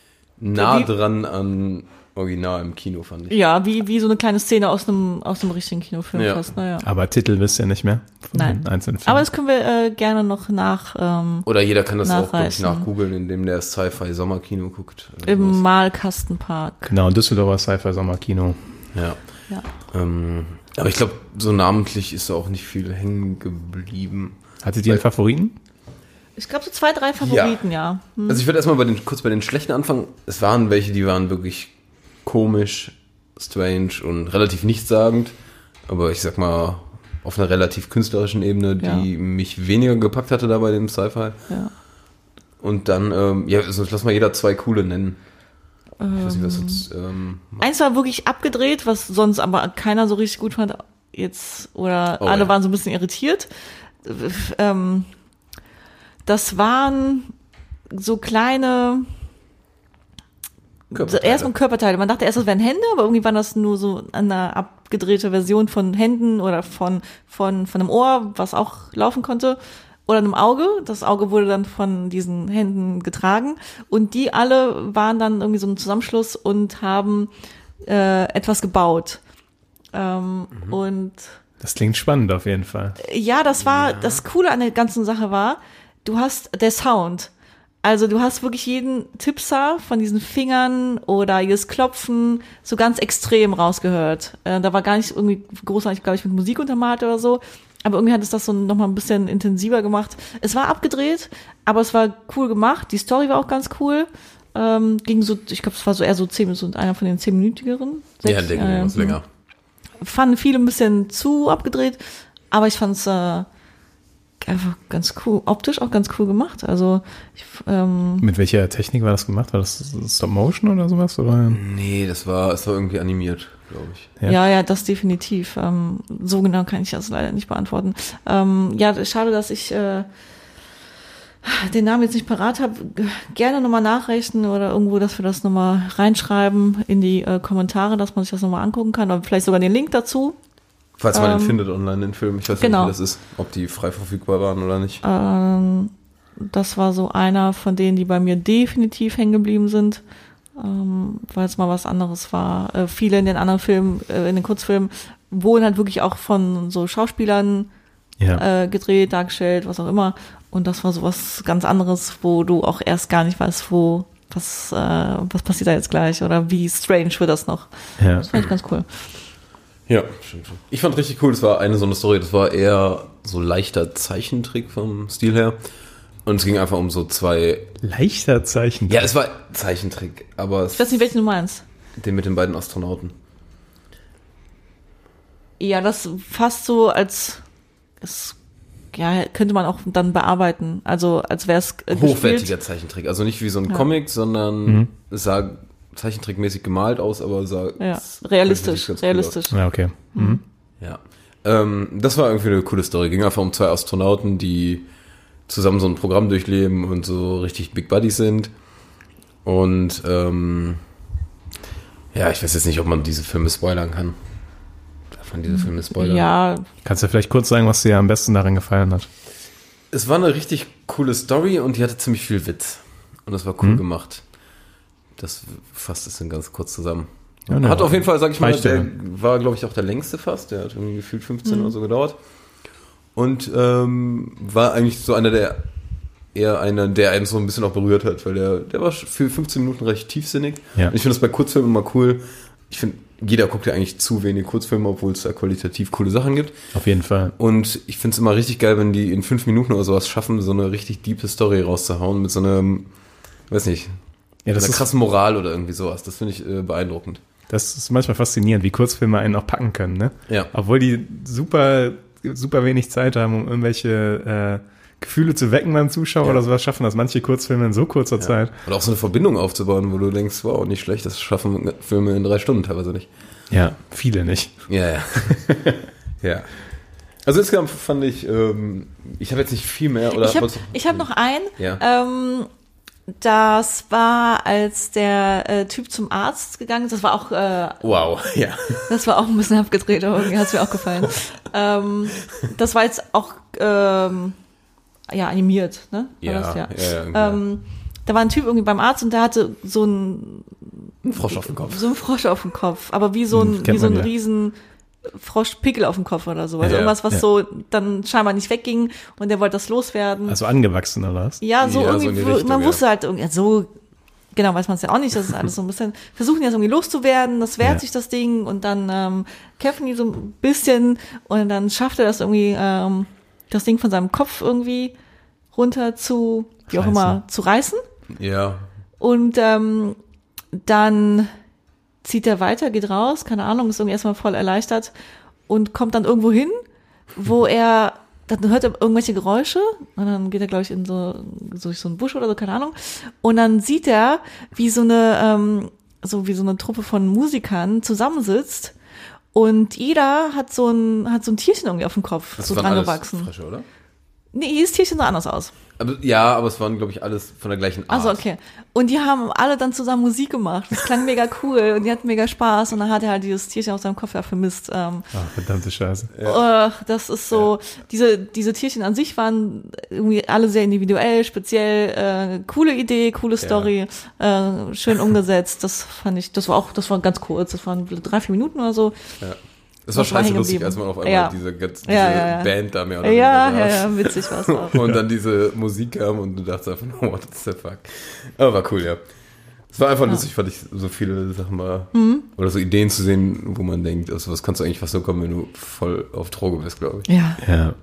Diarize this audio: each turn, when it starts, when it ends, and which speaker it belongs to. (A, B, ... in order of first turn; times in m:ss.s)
0:00.4-0:03.4 A
0:00.5-0:00.9 B
0:03.3-0:06.9 B
0:06.1-0:06.5 A
0:06.8-0:09.3 C
0:08.3-0:11.5 B
0:11.5-0:15.6 A
0:12.0-0:12.9 B
0:15.2-0:16.9 B
0:16.9-0:18.7 C
0:18.9-0:19.2 A
0:19.9-0:24.4 A
0:24.6-0:25.6 C
0:26.4-0:28.4 B
0:27.2-0:27.6 A
0:28.3-0:35.4 A
0:35.9-0:41.4 A
0:42.6-0:45.2 A
0:46.0-0:46.8 B
0:46.2-0:47.7 A
0:47.6-0:53.5 B
0:52.2-0:52.6 A
0:54.0-0:55.1 B
0:56.3-0:57.3 B
0:57.9-0:59.1 B
1:00.9-1:01.5 A
1:00.9-1:17.3 B
1:17.9-1:19.2 B
1:19.9-1:21.3 B
1:20.6-1:20.8 A
1:21.6-1:23.0 C
1:23.0-1:27.3 B
1:23.6-1:24.2 A
1:27.8-1:49.2 B
1:48.2-1:49.2 A
1:50.0-1:53.5 B
1:54.4-1:58.3 B
1:58.2-2:01.6 C
2:01.5-2:04.1 A
2:04.2-2:10.1 B
2:11.4-2:20.4 B
2:21.0-2:25.0 A
2:21.1-2:21.6 B
2:22.6-2:23.0 B
2:25.0-2:30.0 B
2:30.6-2:37.7 B
2:38.4-2:49.1 B
2:48.0-2:48.3 C
2:49.9-2:55.6 A
2:56.2-2:57.8 A
2:57.8-2:59.1 C
2:58.9-3:01.0 A
3:00.7-3:01.6 B
3:02.0-3:03.2 A
3:05.6-3:07.4 B
3:08.0-3:08.4 B
3:08.9-3:12.5 B
3:11.9-3:19.4 A
3:17.8-3:19.6 B
3:19.5-3:20.4 C
3:20.1-3:20.4 B
3:20.8-3:24.9 A
3:25.5-3:28.5 A
3:29.4-3:30.8 A
3:32.1-3:34.2 A
3:35.1-3:36.3 A
3:36.0-3:36.7 B
3:36.8-3:39.1 C
3:39.9-3:44.2 A
3:45.2-3:52.2 A
3:47.5-3:48.9 C
3:51.5-3:51.7 B
3:53.2-3:55.6 A
3:56.3-4:06.6 A
4:06.7-4:07.3 C
4:07.4-4:12.9 A
4:13.5-4:14.0 A
4:14.5-4:14.9 C
4:14.6-4:17.2 A
4:17.5-4:28.5 C
4:28.2-4:33.1 A
4:33.5-4:34.6 C
4:34.7-4:35.6 A
4:35.3-4:35.8 C
4:36.2-4:36.5 A
4:37.2-4:41.1 A
4:40.1-4:42.5 B
4:43.2-4:48.0 B
4:47.8-4:49.0 A
4:48.9-4:54.4 B
4:55.1-5:10.4 B
4:56.2-4:57.4 A
5:01.0-5:01.9 A
5:03.3-5:04.1 C
5:06.6-5:07.0 A
5:10.3-5:11.4 C
5:11.4-5:13.7 B
5:11.6-5:12.8 A
5:14.3-5:24.9 B
5:25.5-5:27.8 B
5:26.7-5:27.2 C
5:28.1-5:28.6 A
5:29.0-5:30.0 B
5:30.5-5:31.3 B
5:32.0-5:34.9 B
5:35.5-5:36.6 B
5:37.2-5:48.7 B
5:49.3-5:53.3 B
5:52.4-5:53.7 A
5:54.3-5:55.5 B
5:55.8-5:58.2 A
5:57.9-6:05.1 B
6:05.1-6:06.1 C
6:06.1-6:06.4 A
6:06.2-6:19.0 B
6:13.4-6:13.7 A
6:19.2-6:29.0 A
6:19.9-6:24.9 B
6:29.7-6:37.1 A
6:31.9-6:32.3 B
6:37.1-6:37.4 B
6:37.4-6:37.8 C